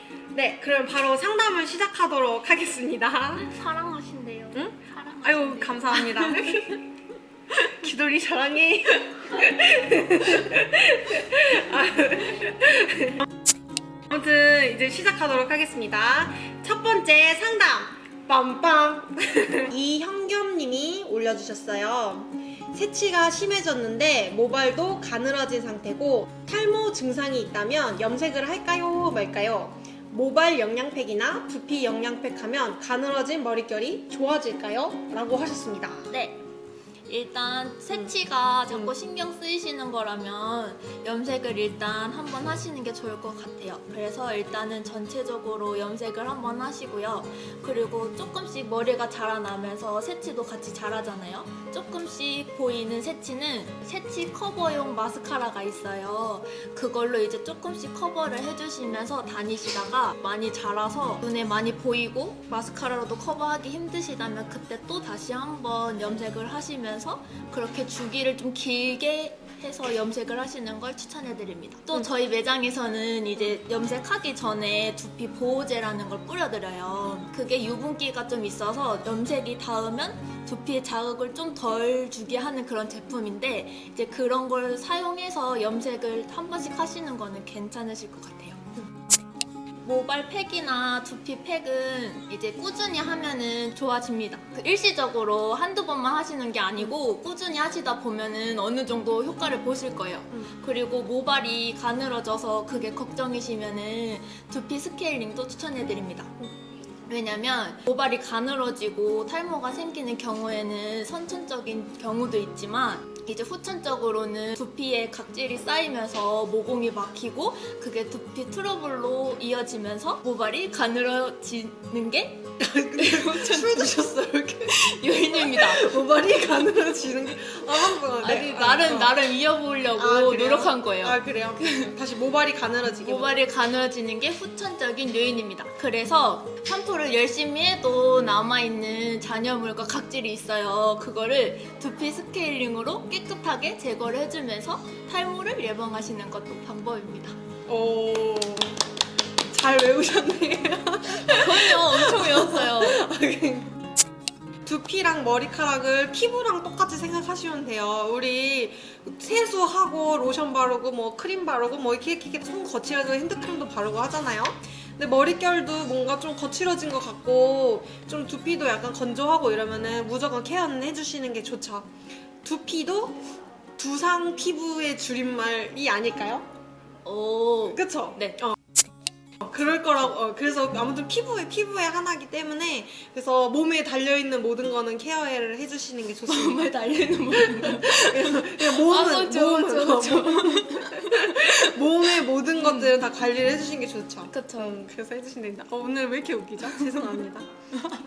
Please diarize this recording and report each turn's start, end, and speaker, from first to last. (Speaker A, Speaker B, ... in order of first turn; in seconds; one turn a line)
Speaker A: 0.3-3.5
Speaker B: 3.4-6.8
Speaker A: 4.5-6.8
Speaker A: 7.5-13.3
Speaker A: 14.1-36.1
Speaker B: 36.1-36.4
Speaker B: 37.1-88.7
Speaker A: 38.7-38.9
Speaker B: 89.8-106.3
Speaker B: 107.1-124.1
Speaker A: 122.6-129.2
Speaker B: 124.6-125.9
Speaker B: 128.2-132.0
Speaker A: 130.0-133.3
Speaker B: 133.0-147.4
Speaker A: 147.7-148.8
Speaker A: 149.5-153.8
Speaker B: 151.1-153.0
Speaker A: 154.6-171.9
Speaker A: 172.4-176.5
Speaker B: 177.0-178.4
Speaker A: 177.7-178.6
Speaker A: 179.4-186.7
Speaker B: 186.3-191.8
Speaker A: 187.3-197.5
Speaker B: 192.6-193.0
Speaker B: 194.3-194.8